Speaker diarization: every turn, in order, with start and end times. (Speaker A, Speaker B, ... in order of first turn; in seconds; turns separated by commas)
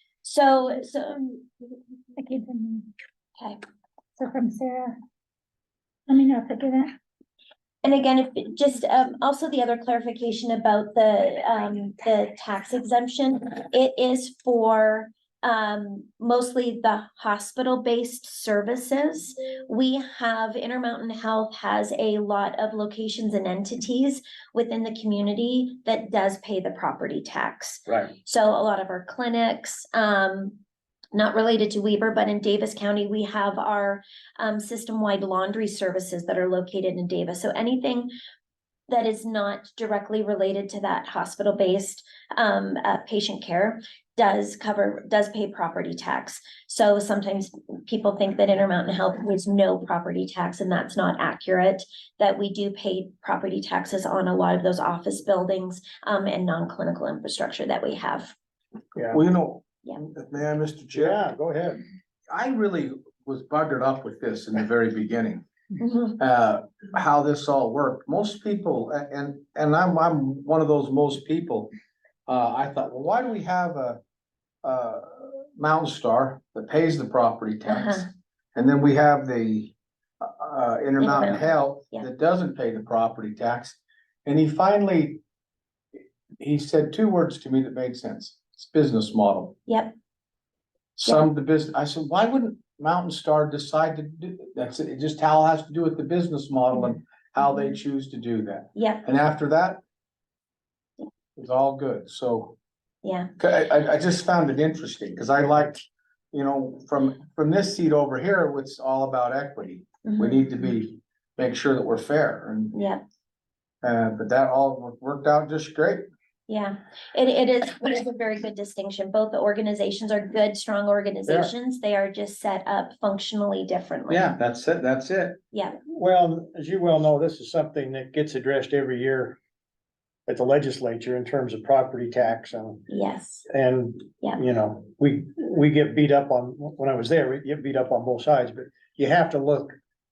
Speaker A: 0.2-1.2, Speaker B: 2.2-2.9, Speaker B: 4.2-5.0, Speaker B: 6.1-7.0, Speaker A: 7.8-30.6, Speaker C: 27.9-28.1, Speaker A: 31.1-38.1, Speaker A: 38.9-58.3, Speaker C: 59.0-59.2, Speaker D: 59.1-61.2, Speaker C: 60.9-61.8, Speaker D: 62.3-65.5, Speaker A: 65.8-66.2, Speaker D: 66.2-71.7, Speaker D: 72.3-74.0, Speaker D: 74.6-85.2, Speaker A: 77.7-78.1, Speaker A: 81.0-82.1, Speaker D: 86.4-89.6, Speaker A: 89.7-89.9, Speaker D: 91.0-99.8, Speaker A: 98.8-99.0, Speaker D: 101.4-102.6, Speaker A: 103.0-103.3, Speaker D: 103.4-112.8, Speaker A: 110.0-110.4, Speaker A: 112.7-113.0, Speaker D: 113.8-116.1, Speaker A: 116.5-124.3, Speaker D: 124.1-125.4, Speaker A: 125.5-125.8, Speaker C: 125.9-129.4, Speaker C: 130.3-132.9, Speaker A: 132.9-133.5, Speaker C: 133.5-139.8